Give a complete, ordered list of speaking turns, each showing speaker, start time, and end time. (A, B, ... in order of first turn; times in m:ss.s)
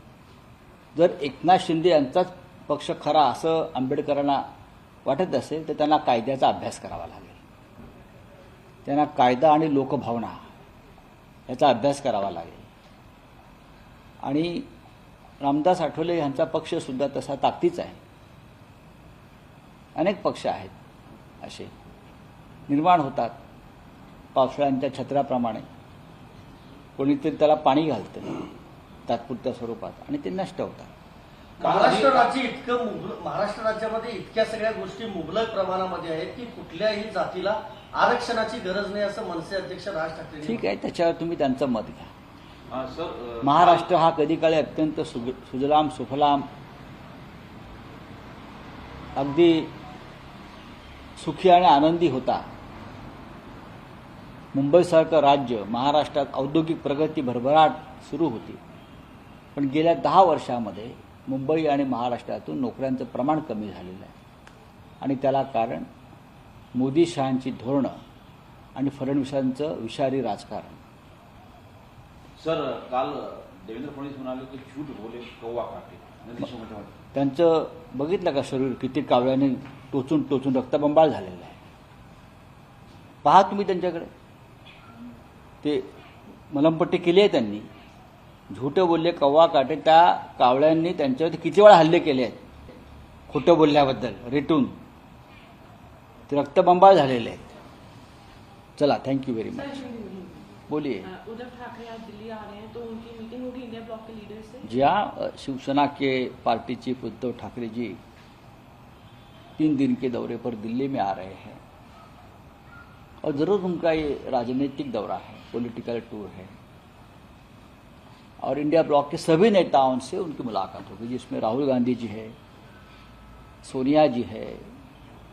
0:00.9-0:04.4 A
0:05.0-0:07.4 A
0:08.8-0:10.5 A
0:11.5-0:12.7 A
0:14.2-0:14.7 A
0:15.4-0:18.0 A
0:20.0-0:20.7 A
0:21.4-0:21.7 A
0:22.7-0:23.4 A
0:24.3-0:25.6 A
0:27.0-0:28.4 A
0:29.1-0:30.9 A
0:31.6-0:32.3 B
0:31.6-0:40.6 C
0:40.4-0:42.1 A
0:42.7-0:43.9 B
0:43.4-0:46.5 A
0:49.2-0:49.7 A
0:51.2-0:52.5 A
0:54.5-0:58.6 A
0:59.5-1:04.1 A
1:05.0-1:05.9 A
1:06.7-1:08.0 A
1:08.7-1:10.8 A
1:12.4-1:16.9 B
1:17.1-1:21.6 A
1:23.2-1:24.1 A
1:25.6-1:25.9 A
1:26.5-1:27.7 A
1:28.5-1:32.4 A
1:33.3-1:34.7 A
1:36.3-1:37.5 A
1:38.8-1:39.9 A
1:39.6-1:40.5 D
1:40.7-1:41.1 A
1:41.0-1:44.8 D
1:44.6-1:48.0 A
1:49.6-1:51.6 A
1:53.2-1:56.6 A
1:58.4-2:02.3 A
2:03.6-2:04.7 A